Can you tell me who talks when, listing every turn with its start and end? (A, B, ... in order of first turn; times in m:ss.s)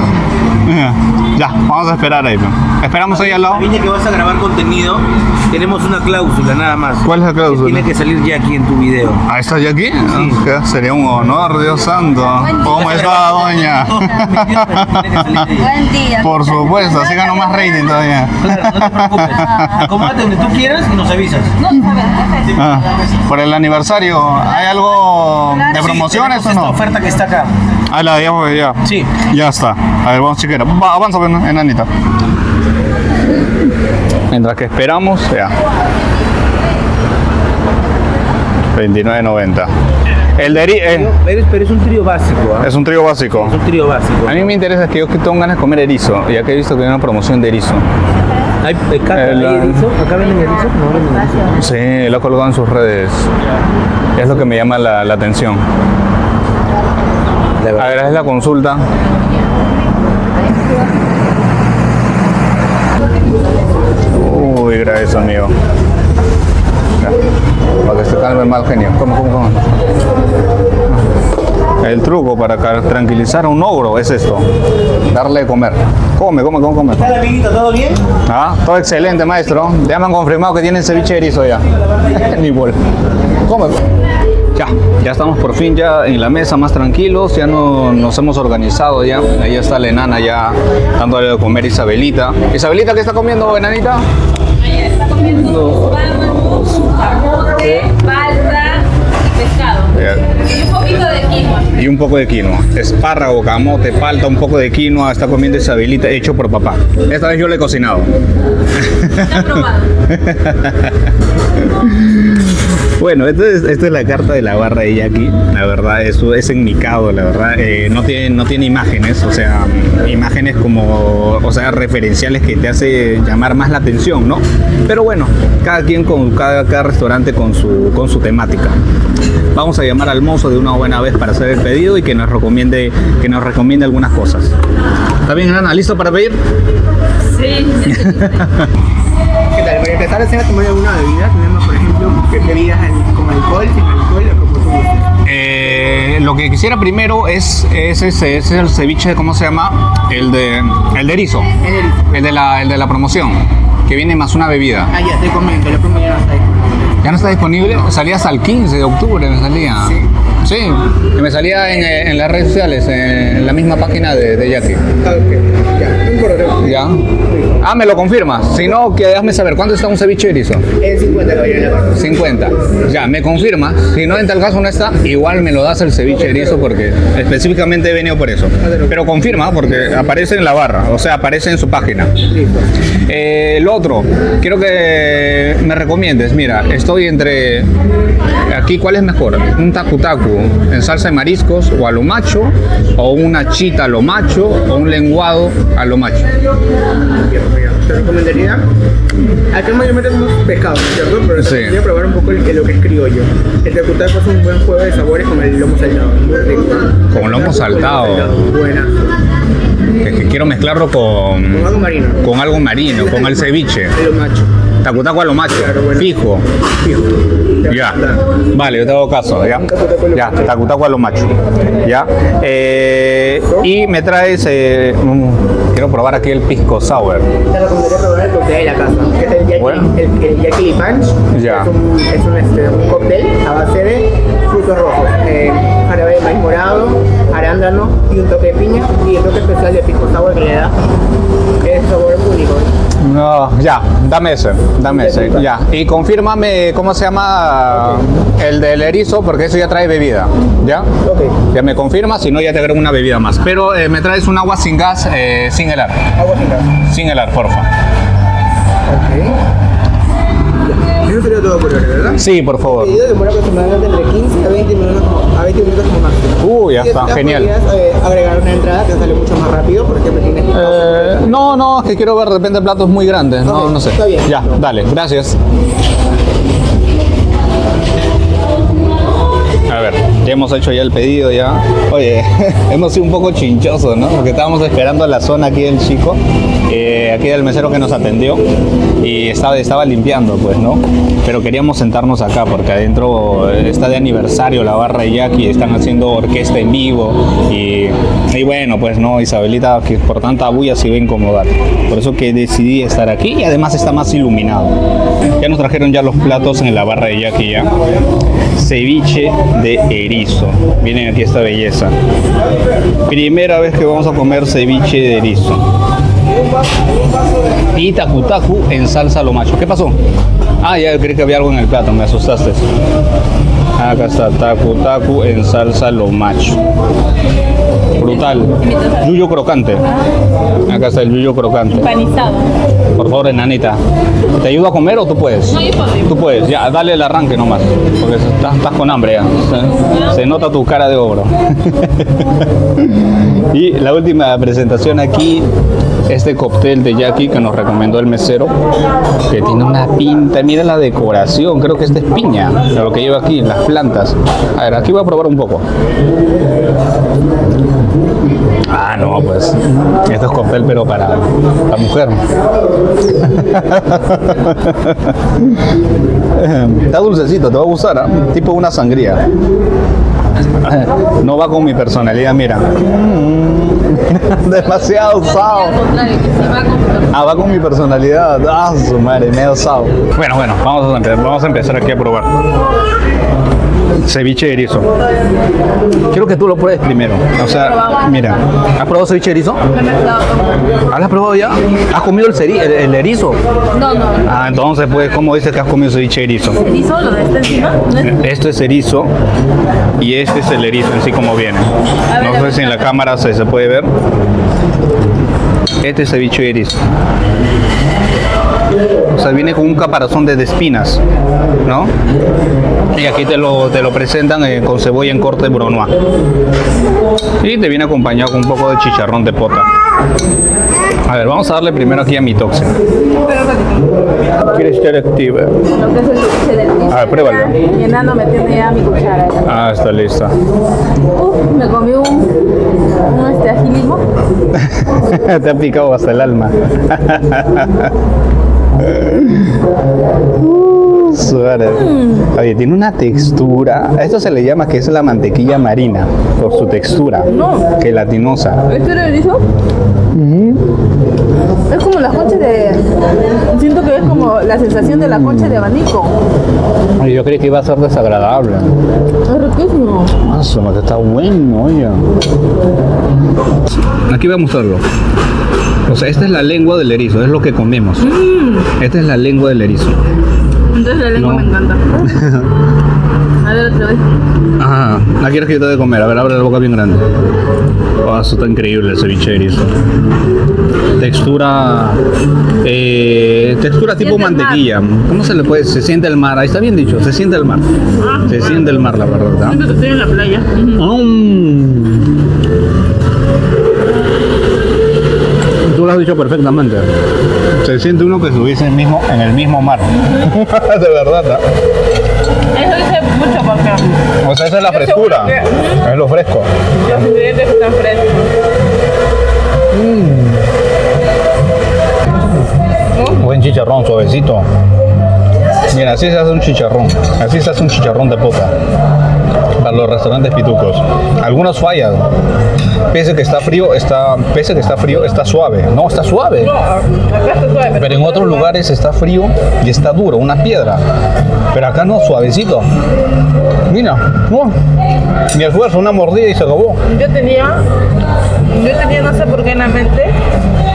0:00.6-0:03.7 A
0:03.2-0:09.2 B
0:07.0-0:07.9 A
0:09.3-0:15.5 A
0:12.6-0:15.7 B
0:15.5-0:17.6 C
0:16.1-0:20.1 A
0:18.4-0:21.5 B
0:19.4-0:19.8 C
0:21.6-0:22.8 C
0:22.5-0:26.8 A
0:25.6-0:27.5 B
0:27.9-0:31.9 A
0:28.8-0:29.1 B
0:34.3-0:35.5 A
0:38.7-0:39.7 A
0:40.4-0:41.1 A
0:40.7-0:42.7 B
0:42.6-0:43.6 A
0:43.3-0:44.4 B
0:44.2-0:47.9 A
0:48.6-0:51.6 B
0:49.1-0:49.8 A
0:51.5-0:53.3 A
0:54.2-0:55.6 A
0:57.6-0:57.9 B
0:57.7-0:58.8 A
1:04.1-1:05.5 A
1:07.8-1:09.8 A
1:11.8-1:14.4 A
1:15.1-1:17.2 A
1:17.0-1:18.0 B
1:18.2-1:22.8 A
1:23.4-1:23.8 A
1:24.5-1:34.0 A
1:34.6-1:41.8 C
1:35.4-1:35.9 A
1:37.5-1:37.9 A
1:39.9-1:40.3 A
1:41.8-1:48.1 A
1:48.7-2:08.8 A
1:49.2-1:49.8 C
2:09.5-2:14.5 A
2:15.2-2:16.4 A
2:17.3-2:18.4 C
2:17.8-2:18.7 A
2:19.5-2:25.1 D
2:25.2-2:31.5 A
2:31.6-2:32.2 D
2:32.1-2:34.9 A
2:34.9-2:36.9 D
2:37.0-2:44.8 A
2:45.0-2:46.7 D
2:46.6-2:47.0 A
2:47.2-2:47.6 D
2:47.6-2:50.6 A
2:50.8-2:52.1 D
2:51.9-3:02.1 A
2:58.6-2:59.0 D
3:02.3-3:02.7 D
3:03.0-3:07.7 A
3:08.5-3:16.3 A
3:17.2-3:18.7 D
3:19.5-3:28.9 D
3:21.4-3:21.8 A
3:27.1-3:28.3 A
3:29.9-3:33.9 A
3:31.5-3:32.2 D
3:32.9-3:34.5 D
3:34.8-3:36.4 A
3:35.5-3:36.1 D
3:36.8-3:38.2 D
3:37.7-3:38.0 A
3:38.5-3:47.3 A
3:39.5-3:40.5 D
3:47.5-4:00.8 D
3:49.6-3:49.9 A
3:51.3-3:51.7 A
4:01.6-4:02.7 D
4:03.0-4:10.9 A
4:04.9-4:05.4 D
4:07.8-4:08.0 D
4:11.0-4:11.4 D
4:11.4-4:16.0 A
4:16.2-4:16.7 D
4:16.8-4:17.7 A
4:18.9-4:19.4 D
4:20.7-4:31.3 D
4:22.2-4:23.0 A
4:26.4-4:27.5 A
4:30.5-4:35.4 A
4:33.4-4:34.6 D
4:39.7-4:48.4 A
4:49.0-5:04.8 A
5:05.4-5:07.7 A
5:08.5-5:11.9 A
5:13.1-5:15.6 A
5:17.7-5:20.0 A
5:20.6-5:22.7 A
5:23.8-5:26.6 A
5:28.0-5:29.8 A
5:28.0-5:29.1 C
5:30.6-5:31.9 A
5:31.7-5:32.5 C
5:33.0-5:33.8 A
5:34.4-5:45.5 A
5:35.5-5:36.2 C
5:39.5-5:40.4 C
5:46.1-5:48.5 A
5:49.3-5:55.6 A
5:58.7-6:02.2 A
6:03.1-6:05.6 A
6:06.3-6:09.2 A
6:10.5-6:15.8 A
6:14.6-6:17.1 C
6:17.1-6:22.3 A
6:24.0-6:24.9 A
6:26.1-6:29.6 A
6:27.4-6:28.4 C
6:29.7-6:30.6 C
6:30.9-6:33.4 A
6:33.7-6:34.3 C
6:34.2-6:36.6 A
6:36.5-6:38.2 C
6:38.0-6:39.1 A
6:40.0-6:43.9 A
6:42.1-6:42.9 C
6:45.8-6:46.8 A
6:49.1-6:51.0 A
6:51.6-6:51.9 A
6:52.9-6:55.9 A
6:57.4-6:59.7 A
7:01.0-7:02.8 A
7:03.2-7:04.0 C
7:04.4-7:05.5 A
7:05.7-7:09.6 C
7:06.9-7:07.6 A
7:09.4-7:10.3 A
7:11.1-7:12.3 C
7:13.0-7:14.0 C
7:14.5-7:17.9 A
7:18.8-7:19.6 A
7:20.4-7:28.6 A
7:21.7-7:22.2 C
7:27.3-7:27.7 C
7:28.7-7:29.4 C
7:30.1-7:30.6 A
7:31.7-7:32.8 C
7:33.5-7:36.2 C
7:35.1-7:35.6 A
7:37.0-7:38.7 A
7:39.3-7:40.1 C
7:40.2-7:42.0 A
7:44.1-7:44.8 A
7:45.8-7:48.1 A
7:48.0-7:48.7 C
7:48.8-7:50.0 A
7:50.7-7:52.2 C
7:51.1-7:51.5 A
7:52.0-7:52.5 A
7:53.4-7:54.0 C
7:54.6-7:57.1 A
7:58.0-7:59.7 A
8:01.0-8:02.0 A
8:02.6-8:07.7 A
8:04.0-8:04.6 C
8:08.0-8:10.8 C
8:08.3-8:09.6 A
8:10.7-8:12.1 A
8:15.6-8:16.9 A
8:17.5-8:21.4 A
8:22.5-8:24.0 C
8:24.2-8:27.0 A
8:24.6-8:25.8 C
8:26.8-8:28.3 C
8:29.7-8:30.4 A
8:32.9-8:33.2 C
8:33.1-8:34.5 A
8:35.7-8:38.6 A
8:39.6-8:42.1 A
8:42.9-8:46.5 A
8:46.4-8:48.5 C
8:47.8-8:50.8 A
8:51.5-8:52.7 A
8:53.7-8:54.6 A
8:55.3-8:56.8 A
8:56.8-8:57.6 C
8:58.5-9:00.2 C